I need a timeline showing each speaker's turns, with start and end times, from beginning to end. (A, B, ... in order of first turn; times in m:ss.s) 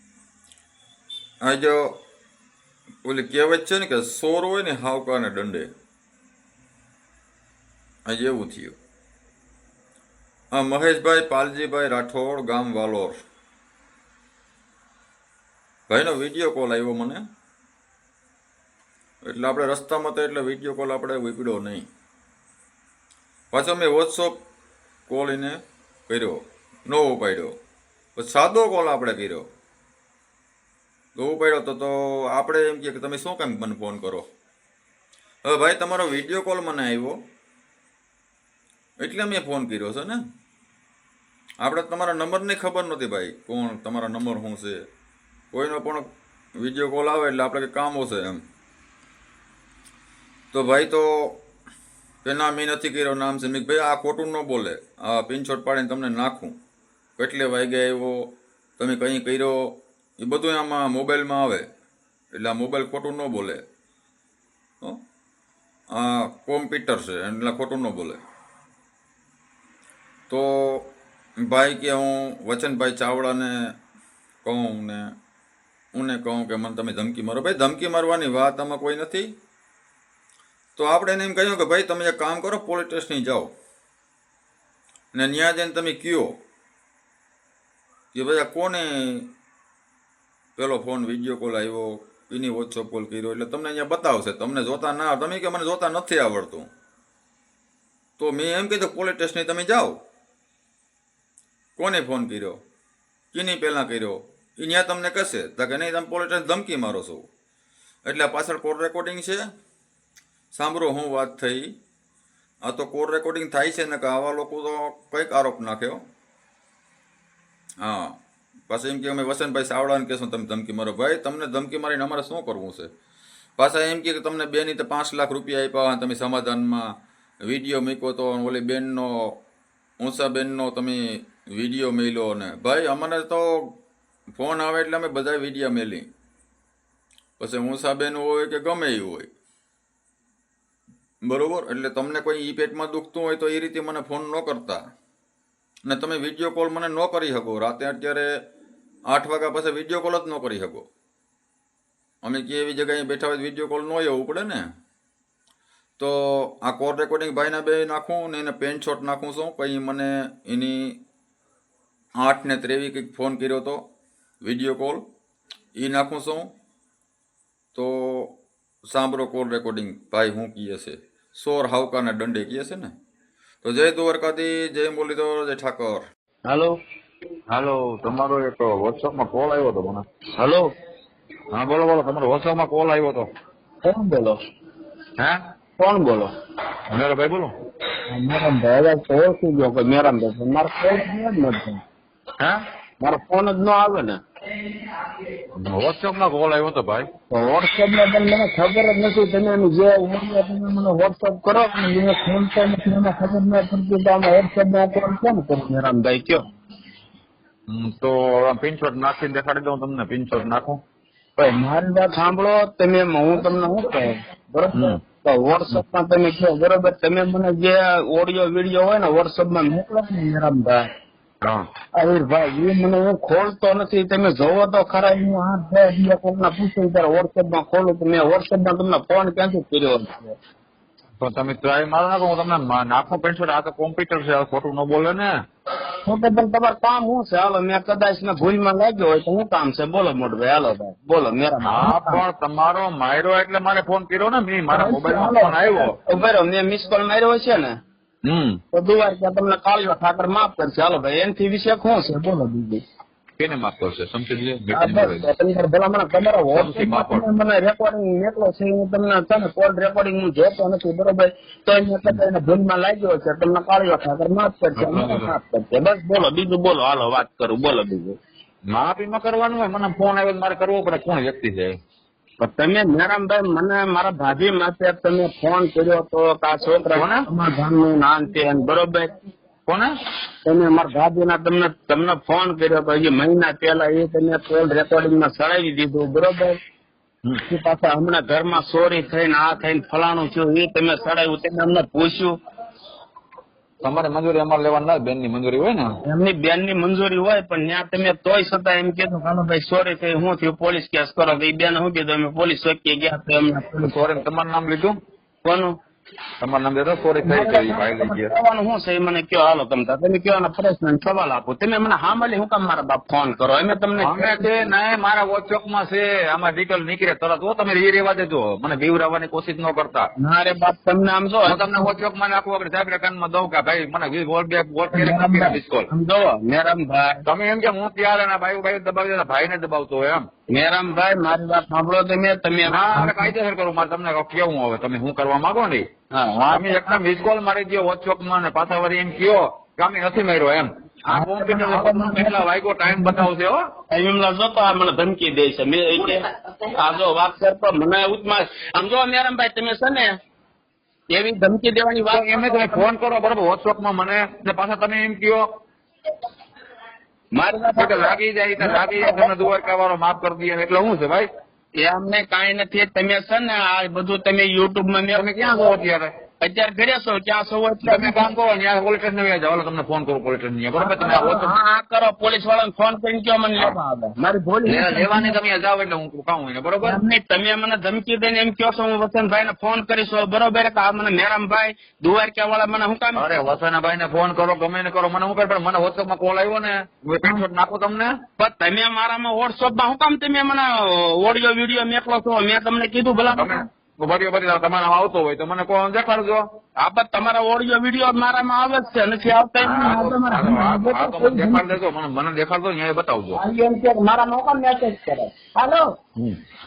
0:01.4-0:01.9 A
0:03.0-0:05.7 A
0:08.1-0:08.8 A
0:10.5-0:13.2 A
0:15.9-0:17.2 A
0:19.2-0:21.9 A
0:23.5-0:24.4 A
0:25.1-0:27.6 A
0:28.2-0:29.5 A
0:31.2-0:34.2 A
0:35.4-0:37.2 A
0:39.0-0:40.2 A
0:41.6-0:44.8 A
0:45.5-0:46.1 A
0:46.6-0:48.4 A
0:50.5-0:51.4 A
0:52.2-0:56.6 A
0:57.2-0:59.6 A
1:00.2-1:01.7 A
1:02.3-1:03.6 A
1:05.9-1:08.2 A
1:10.3-1:10.9 A
1:11.4-1:13.5 A
1:14.4-1:15.0 A
1:15.9-1:19.3 A
1:20.8-1:23.5 A
1:25.1-1:26.3 A
1:28.1-1:29.2 A
1:30.6-1:36.7 A
1:38.2-1:40.0 A
1:41.8-1:42.6 A
1:43.3-1:47.3 A
1:48.0-1:49.4 A
1:50.5-1:51.7 A
1:52.6-1:56.0 A
1:57.8-1:58.2 A
1:58.7-2:02.9 A
2:03.6-2:06.9 A
2:07.4-2:09.4 A
2:10.0-2:13.6 A
2:14.4-2:16.1 A
2:17.4-2:19.3 A
2:21.2-2:24.8 A
2:25.9-2:28.3 A
2:29.1-2:30.9 A
2:32.2-2:34.7 A
2:36.0-2:41.0 A
2:42.2-2:43.8 A
2:44.4-2:45.0 A
2:45.8-2:46.5 A
2:47.7-2:48.4 A
2:48.9-2:52.9 A
2:53.6-2:56.1 A
2:56.5-2:56.8 B
2:57.5-3:00.0 C
3:00.4-3:00.7 B
3:01.5-3:03.3 C
3:03.8-3:04.4 B
3:05.8-3:06.3 B
3:06.9-3:07.5 C
3:08.1-3:11.8 B
3:13.0-3:14.2 B
3:15.6-3:17.1 C
3:17.3-3:26.4 B
3:27.7-3:30.8 C
3:31.4-3:40.9 B
3:34.7-3:35.0 C
3:42.0-3:50.4 B
3:51.2-3:55.3 C
3:56.1-4:02.2 B
4:01.6-4:06.0 C
4:04.7-4:07.7 B
4:08.3-4:08.6 C
4:08.7-4:12.8 B
4:13.4-4:15.3 C
4:14.7-4:28.2 B
4:16.5-4:17.2 C
4:24.8-4:25.3 C
4:28.7-4:31.7 C
4:32.4-4:39.1 B
4:36.9-4:37.3 C
4:40.5-4:46.6 B
4:47.5-4:52.4 B
4:53.8-4:56.0 C
4:56.0-5:04.0 B
5:03.8-5:05.0 C
5:05.4-5:05.7 B
5:06.4-5:08.3 C
5:07.2-5:14.4 B
5:14.0-5:20.1 C
5:20.2-5:21.7 B
5:21.4-5:25.9 C
5:24.9-5:27.2 B
5:27.2-5:30.2 C
5:30.5-5:33.3 B
5:32.6-5:43.6 C
5:36.2-5:37.0 B
5:41.1-5:42.4 B
5:43.9-5:46.2 B
5:46.8-5:50.1 B
5:51.1-5:52.8 B
5:52.1-5:55.4 C
5:57.4-5:59.4 B
5:57.8-6:01.3 C
6:01.8-6:05.5 B
6:05.1-6:06.1 C
6:06.4-6:08.2 B
6:07.8-6:11.5 C
6:10.8-6:15.4 B
6:14.6-6:17.0 C
6:16.8-6:23.3 B
6:23.2-6:28.1 C
6:28.4-6:33.7 B
6:33.4-6:36.4 C
6:36.8-6:41.7 B
6:39.6-6:43.4 C
6:43.4-6:45.9 B